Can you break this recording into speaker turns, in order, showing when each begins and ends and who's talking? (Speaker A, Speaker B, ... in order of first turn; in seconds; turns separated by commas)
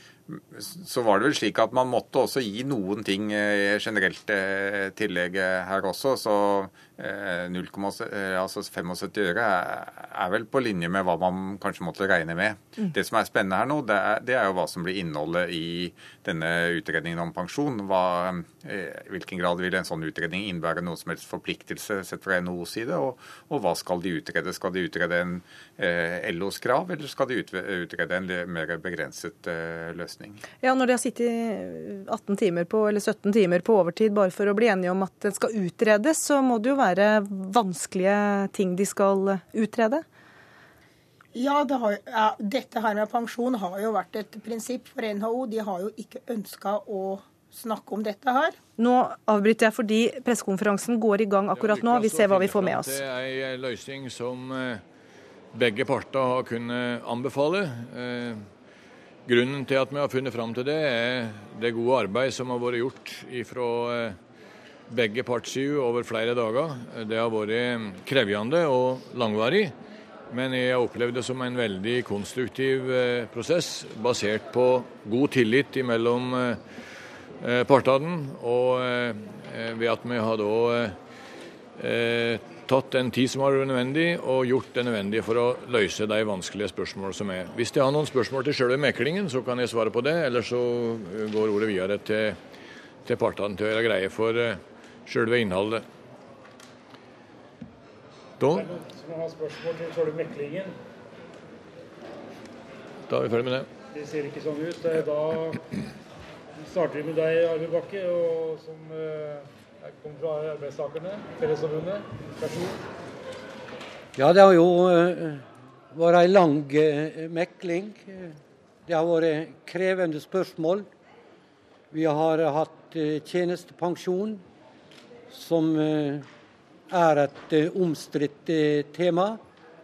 Speaker A: 0.3-30.4, Speaker B: 30.6-40.0, Speaker C: 41.3-48.5, Speaker B: 48.8-53.0, Speaker D: 51.5-54.8, Speaker D: 55.5-58.5, Speaker D: 59.2-64.2, Speaker D: 64.9-69.7, Speaker D: 70.3-76.6, Speaker D: 77.4-81.0, Speaker D: 81.8-92.4, Speaker D: 93.0-95.8, Speaker D: 98.4-98.7, Speaker E: 98.5-100.7, Speaker D: 103.1-103.7, Speaker E: 103.9-105.6, Speaker E: 106.7-109.4, Speaker E: 110.0-112.7, Speaker F: 114.2-120.9, Speaker F: 121.9-124.4, Speaker F: 125.3-126.2, Speaker F: 126.9-129.4